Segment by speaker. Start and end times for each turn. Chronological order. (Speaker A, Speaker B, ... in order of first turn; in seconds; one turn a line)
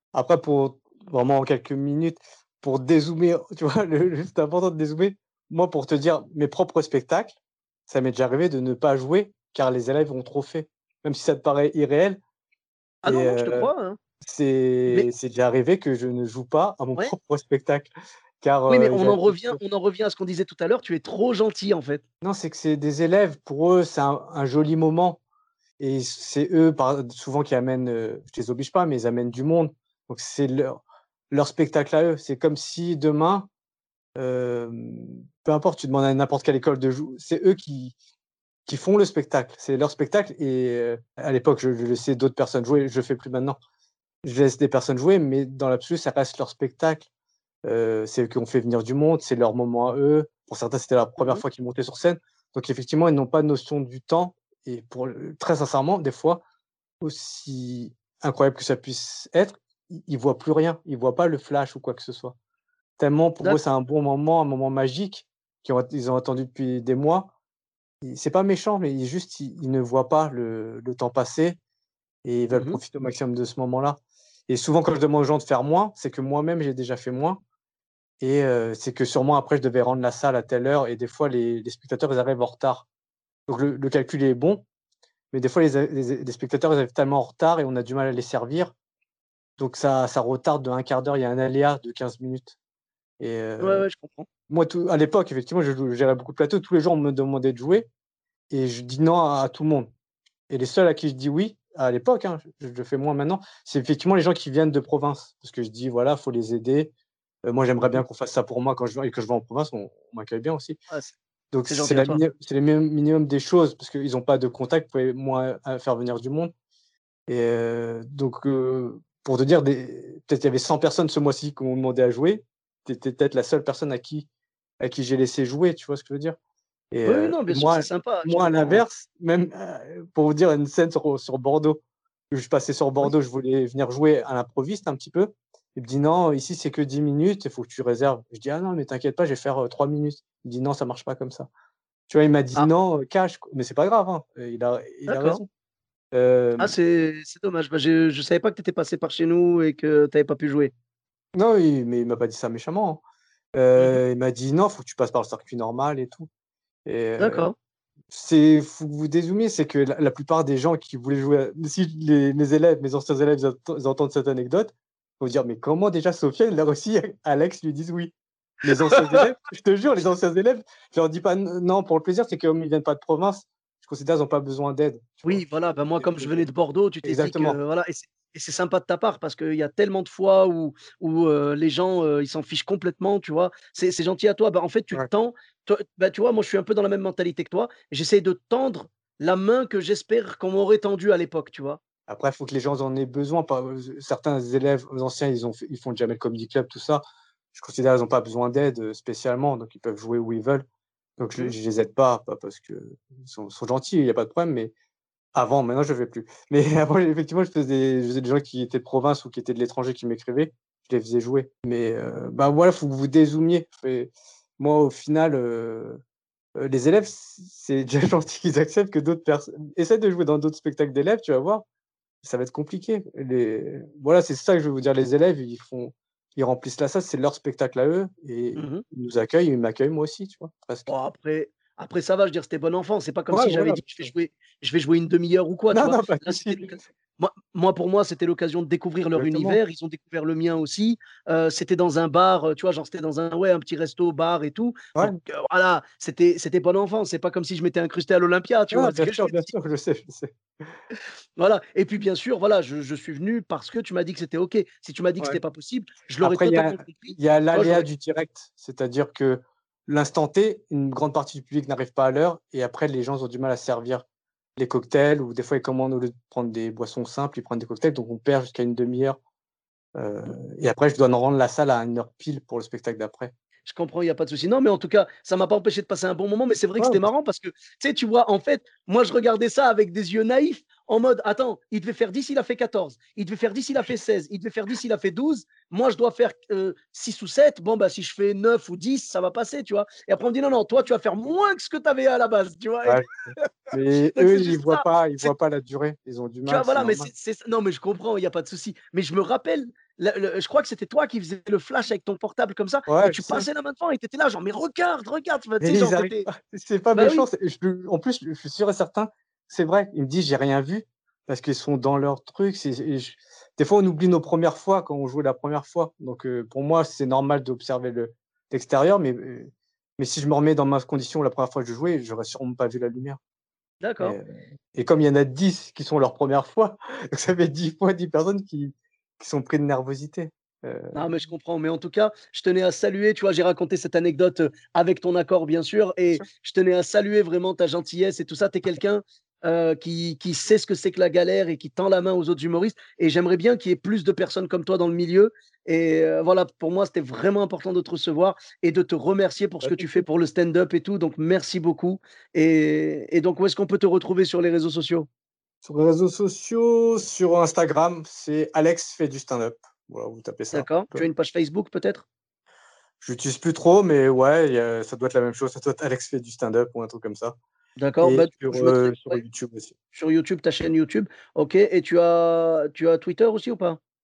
Speaker A: 0.1-7.4
Speaker A: 7.9-12.2
Speaker B: 13.0-14.0
Speaker A: 13.0-13.7
Speaker A: 14.2-19.6
Speaker B: 18.7-22.0
Speaker A: 22.2-25.2
Speaker A: 25.8-30.8
Speaker A: 31.3-33.5
Speaker A: 34.1-37.9
Speaker A: 38.7-43.6
Speaker A: 44.2-47.1
Speaker A: 47.6-56.4
Speaker A: 57.0-62.3
Speaker A: 63.0-67.3
Speaker A: 68.0-71.6
Speaker A: 72.2-77.4
Speaker B: 72.5-72.8
Speaker A: 78.2-82.8
Speaker A: 83.5-84.6
Speaker A: 85.3-88.7
Speaker A: 89.6-92.5
Speaker A: 93.2-93.8
Speaker B: 93.6-94.3
Speaker A: 94.5-97.9
Speaker A: 98.5-99.9
Speaker A: 100.5-106.9
Speaker A: 107.4-110.8
Speaker A: 111.5-116.5
Speaker B: 111.7-112.2
Speaker A: 117.3-124.3
Speaker A: 124.8-126.4
Speaker A: 126.9-141.5
Speaker B: 127.0-128.8
Speaker A: 142.1-145.5
Speaker B: 145.1-145.4
Speaker A: 146.1-146.7
Speaker B: 146.6-150.7
Speaker A: 151.3-153.0
Speaker A: 153.5-156.3
Speaker A: 156.8-157.5
Speaker B: 157.2-157.5
Speaker A: 158.1-168.1
Speaker A: 168.6-175.4
Speaker B: 168.9-169.2
Speaker B: 175.2-191.8
Speaker A: 176.0-176.4
Speaker A: 177.0-177.6
Speaker A: 192.1-200.6
Speaker A: 201.2-204.7
Speaker A: 205.3-216.0
Speaker A: 216.6-221.6
Speaker A: 222.2-230.9
Speaker B: 228.6-228.8
Speaker B: 230.9-249.5
Speaker A: 233.3-234.1
Speaker A: 235.7-236.8
Speaker A: 239.2-239.6
Speaker A: 248.7-250.7
Speaker B: 251.4-257.9
Speaker A: 256.2-264.0
Speaker A: 264.6-269.2
Speaker A: 269.9-273.3
Speaker B: 273.7-293.5
Speaker A: 276.8-277.0
Speaker A: 293.7-297.1
Speaker B: 294.1-295.3
Speaker B: 296.5-306.3
Speaker A: 302.9-303.5
Speaker A: 305.6-323.2
Speaker B: 306.9-307.2
Speaker B: 323.8-324.2
Speaker A: 324.0-330.9
Speaker B: 330.9-355.1
Speaker A: 349.6-350.0
Speaker A: 355.6-361.1
Speaker B: 360.5-362.0
Speaker A: 363.0-367.3
Speaker B: 367.8-369.2
Speaker A: 368.0-369.7
Speaker B: 369.9-373.8